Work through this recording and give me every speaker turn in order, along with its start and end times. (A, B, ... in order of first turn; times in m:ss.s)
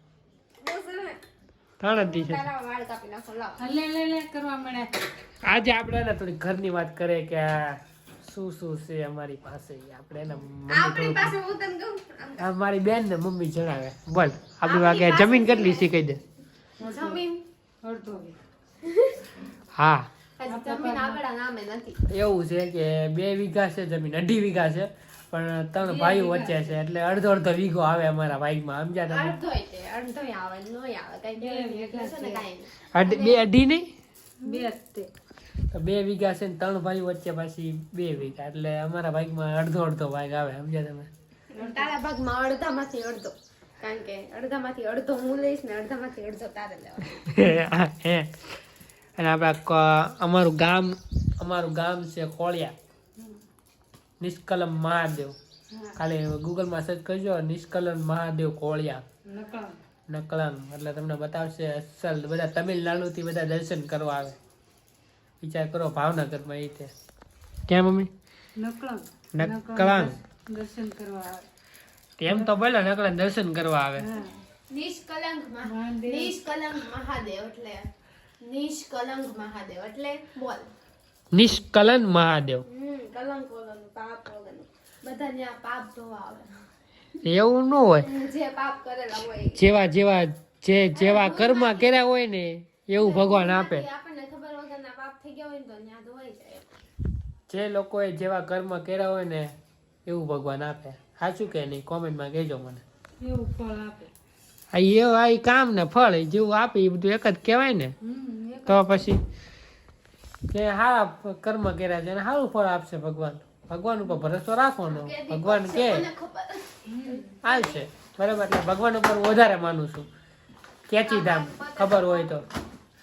0:00.6-0:01.2 A
0:01.8-0:02.4 B
0:01.9-0:03.6 A
0:03.6-0:05.0 C
0:05.4-0:11.4 B
0:10.7-0:12.4 A
0:12.4-0:16.2 B
0:14.6-0:15.9 A
0:16.8-0:17.3 C
0:16.8-0:17.4 A
0:17.8-0:18.4 C
0:18.8-0:19.2 A
0:19.8-0:20.1 B
0:20.4-0:22.0 A
0:20.5-0:21.2 C
0:22.1-0:29.4 B
0:25.8-0:26.7 C
0:29.1-0:33.4 A
0:31.4-0:32.5 C
0:32.9-0:33.9 B
0:34.4-0:35.1 C
0:35.7-0:41.1 B
0:41.6-0:42.0 C
0:41.6-0:47.1 A
0:47.1-0:48.3 B
0:49.2-0:52.8 B
0:53.2-0:53.4 C
0:54.2-0:55.4 B
0:55.7-0:56.0 C
0:56.0-0:59.0 B
0:59.2-0:59.8 C
1:00.1-1:04.4 B
1:05.4-1:06.9 B
1:07.7-1:08.1 B
1:08.6-1:11.5 C
1:09.3-1:10.2 B
1:12.2-1:14.1 B
1:12.3-1:12.5 C
1:14.0-1:14.4 C
1:14.7-1:17.9 A
1:15.6-1:16.4 C
1:18.4-1:20.7 A
1:21.3-1:22.6 B
1:22.7-1:26.5 A
1:27.2-1:28.1 B
1:28.0-1:29.6 A
1:29.5-1:33.9 B
1:31.0-1:32.0 A
1:33.0-1:36.7 A
1:37.5-1:39.5 B
1:40.0-1:42.8 B
1:43.2-1:44.1 C
1:44.7-1:48.0 B
1:48.0-1:49.1 C
1:48.6-1:49.2 B
1:50.5-1:56.1 B
1:54.9-1:57.9 A
1:56.9-1:57.3 C
1:57.4-2:00.1 B
2:00.9-2:02.4 B
2:01.1-2:02.4 A